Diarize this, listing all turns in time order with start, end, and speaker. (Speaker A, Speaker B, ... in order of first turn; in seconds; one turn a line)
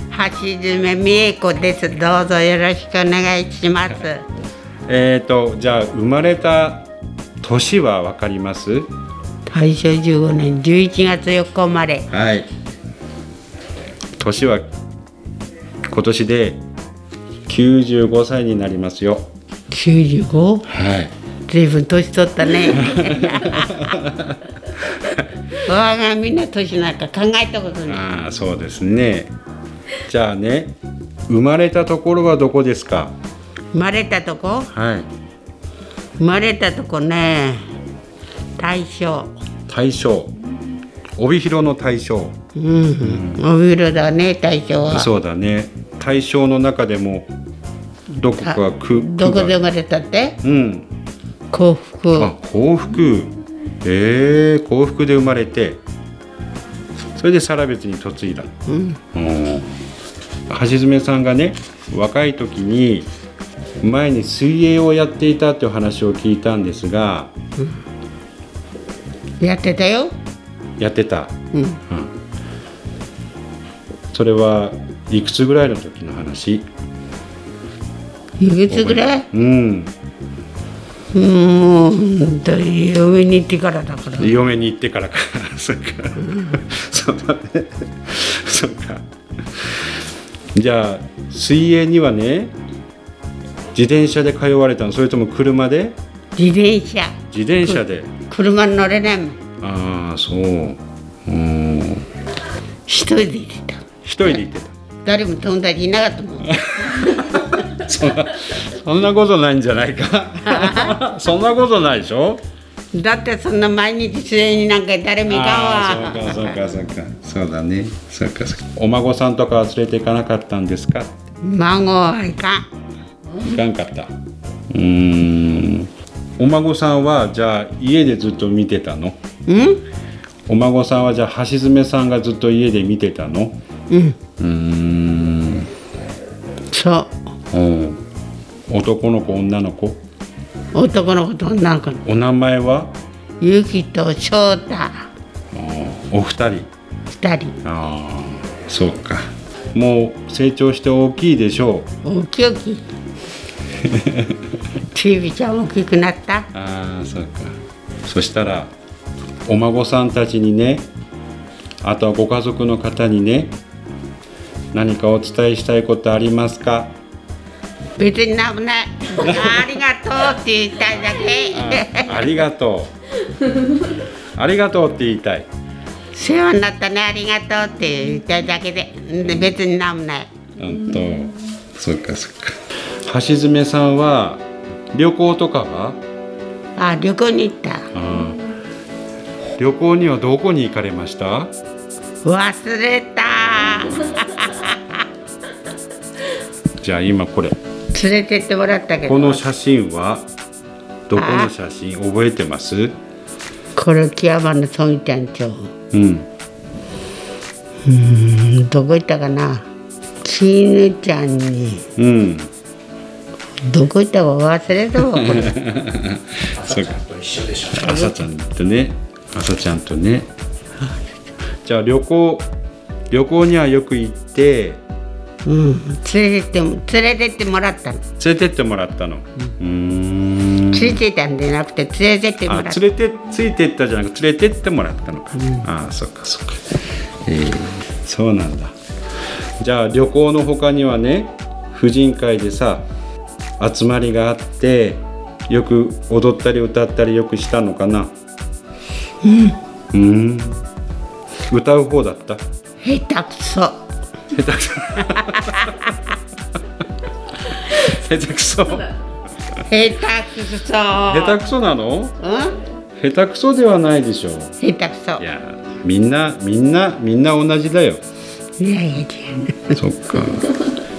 Speaker A: 0.1-4.2
Speaker B: 4.9-6.9
Speaker B: 7.4-8.9
Speaker A: 9.5-12.1
Speaker B: 12.1-12.5
Speaker B: 14.2-14.7
Speaker B: 15.9-16.6
Speaker B: 17.5-19.3
Speaker A: 19.7-20.7
Speaker B: 20.7-21.1
Speaker A: 21.5-23.8
Speaker B: 22.8-23.2
Speaker B: 23.9-24.4
Speaker A: 25.6-28.0
Speaker B: 27.9-29.3
Speaker B: 30.1-30.8
Speaker B: 31.3-33.1
Speaker A: 33.7-34.7
Speaker B: 34.7-35.1
Speaker A: 36.2-37.6
Speaker A: 38.6-39.3
Speaker B: 39.7-40.3
Speaker B: 41.2-42.4
Speaker A: 42.5-45.1
Speaker B: 43.0-43.4
Speaker B: 44.9-47.3
Speaker B: 48.1-49.5
Speaker A: 48.4-50.4
Speaker B: 50.4-50.9
Speaker A: 51.5-52.3
Speaker B: 52.1-55.8
Speaker B: 57.1-58.5
Speaker A: 58.7-59.0
Speaker B: 59.1-59.7
Speaker B: 60.5-63.1
Speaker B: 63.8-67.3
Speaker A: 69.4-70.1
Speaker B: 70.8-71.3
Speaker A: 71.5-71.8
Speaker B: 74.1-76.7
Speaker A: 78.4-79.2
Speaker B: 78.7-79.9
Speaker A: 81.1-84.3
Speaker B: 84.2-89.0
Speaker B: 90.5-92.5
Speaker B: 93.7-96.0
Speaker A: 96.3-99.4
Speaker B: 97.3-98.1
Speaker B: 99.6-102.1
Speaker A: 102.9-103.8
Speaker B: 104.0-104.7
Speaker A: 105.0-106.5
Speaker B: 106.8-112.4
Speaker A: 110.5-110.9
Speaker A: 112.9-116.6
Speaker B: 115.3-121.2
Speaker A: 121.4-122.6
Speaker B: 123.4-124.1
Speaker B: 124.7-129.2
Speaker A: 129.4-129.8
Speaker B: 130.5-133.6
Speaker A: 133.9-134.2
Speaker B: 134.4-135.7
Speaker A: 136.7-137.2
Speaker B: 137.5-138.0
Speaker B: 138.7-140.0
Speaker A: 140.7-142.0
Speaker B: 142.0-142.9
Speaker A: 143.4-145.1
Speaker B: 145.5-146.7
Speaker A: 147.2-147.6
Speaker B: 147.6-151.9
Speaker A: 152.0-152.8
Speaker B: 153.9-154.4
Speaker A: 154.9-156.5
Speaker B: 156.5-158.7
Speaker B: 159.4-160.9
Speaker B: 161.8-163.5
Speaker B: 164.7-166.9
Speaker A: 168.0-172.1
Speaker B: 169.2-169.6
Speaker B: 171.5-172.9
Speaker B: 174.3-175.5
Speaker A: 176.1-180.3
Speaker B: 180.6-186.0
Speaker A: 186.8-187.8
Speaker B: 187.9-188.4
Speaker B: 189.6-191.5
Speaker A: 192.2-194.7
Speaker B: 196.8-197.6
Speaker A: 197.9-199.4
Speaker B: 199.1-200.2
Speaker B: 201.1-202.9
Speaker A: 201.1-201.5
Speaker A: 203.8-205.7
Speaker B: 205.9-206.3
Speaker A: 207.8-209.7
Speaker A: 210.2-211.8
Speaker B: 212.0-212.5
Speaker A: 213.7-215.6
Speaker B: 215.2-216.9
Speaker B: 217.7-220.3
Speaker A: 217.7-218.1
Speaker B: 221.6-222.5
Speaker B: 223.1-224.8
Speaker A: 225.4-228.0
Speaker B: 228.2-231.0
Speaker A: 230.7-232.8
Speaker B: 232.4-236.6
Speaker A: 235.4-235.7
Speaker B: 237.2-238.7
Speaker B: 239.6-242.8
Speaker B: 243.6-248.1
Speaker A: 249.2-249.6
Speaker B: 249.9-250.6
Speaker B: 251.5-252.4
Speaker A: 252.8-253.8
Speaker B: 254.3-255.7
Speaker B: 257.5-258.9
Speaker A: 259.6-261.4
Speaker B: 261.1-262.2
Speaker A: 262.2-262.5
Speaker B: 263.0-264.5
Speaker A: 264.6-265.2
Speaker B: 265.2-268.0
Speaker A: 268.6-269.8
Speaker B: 269.7-270.5